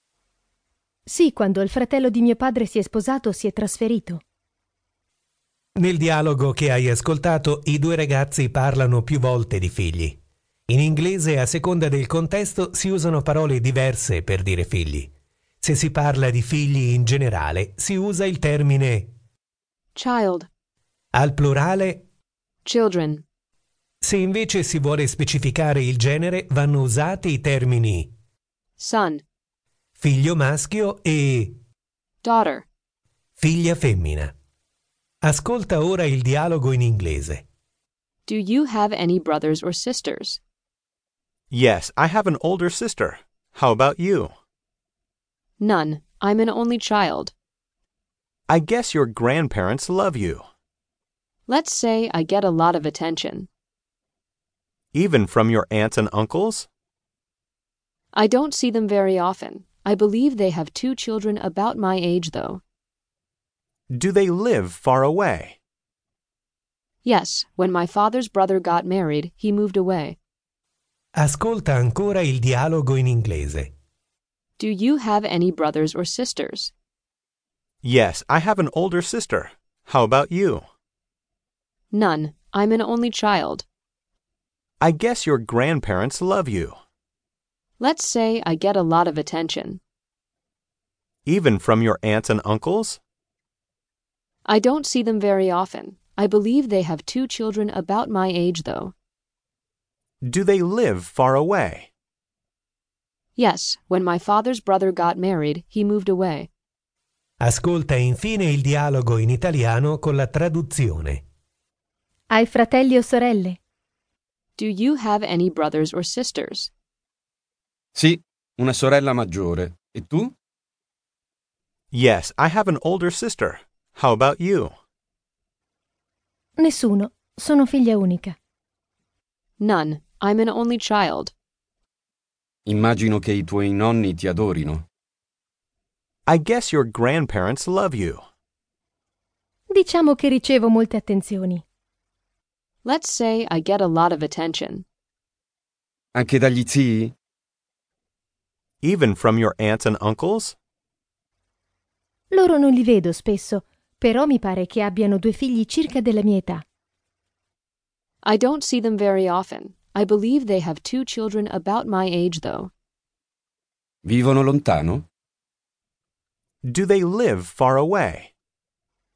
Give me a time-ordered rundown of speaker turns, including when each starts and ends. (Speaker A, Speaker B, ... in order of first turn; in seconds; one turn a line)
Speaker A: 1.1-4.2
Speaker B: 5.8-10.2
Speaker B: 10.7-19.1
Speaker C: 19.9-20.5
Speaker B: 21.1-22.1
Speaker C: 22.6-23.2
Speaker B: 24.0-28.1
Speaker C: 28.8-29.2
Speaker B: 30.0-31.6
Speaker C: 32.2-32.7
Speaker B: 33.4-34.3
Speaker B: 35.2-37.4
Speaker C: 38.3-40.4
Speaker D: 41.5-44.3
Speaker C: 45.6-47.3
Speaker D: 48.5-50.5
Speaker C: 51.5-53.5
Speaker D: 54.9-56.7
Speaker C: 58.1-62.6
Speaker D: 63.9-65.6
Speaker C: 67.0-70.2
Speaker B: 71.2-73.7
Speaker C: 74.6-76.7
Speaker D: 77.8-80.7
Speaker C: 81.9-83.7
Speaker D: 84.8-86.8
Speaker C: 87.8-89.8
Speaker D: 91.3-93.0
Speaker C: 94.5-98.9
Speaker D: 100.2-101.9
Speaker C: 103.4-106.5
Speaker B: 107.4-111.2
Speaker A: 112.3-113.6
Speaker C: 114.6-116.7
Speaker E: 118.0-120.3
Speaker D: 121.9-124.8
Speaker A: 126.6-128.4
Speaker C: 129.6-131.3
Speaker E: 132.7-134.9
Speaker D: 136.3-138.2
Speaker A: 139.7-141.7
Speaker C: 142.8-144.8
Speaker E: 146.1-147.2
Speaker D: 148.8-150.6
Speaker A: 152.3-156.6
Speaker C: 158.2-162.7
Speaker E: 164.0-165.1
Speaker D: 166.6-168.3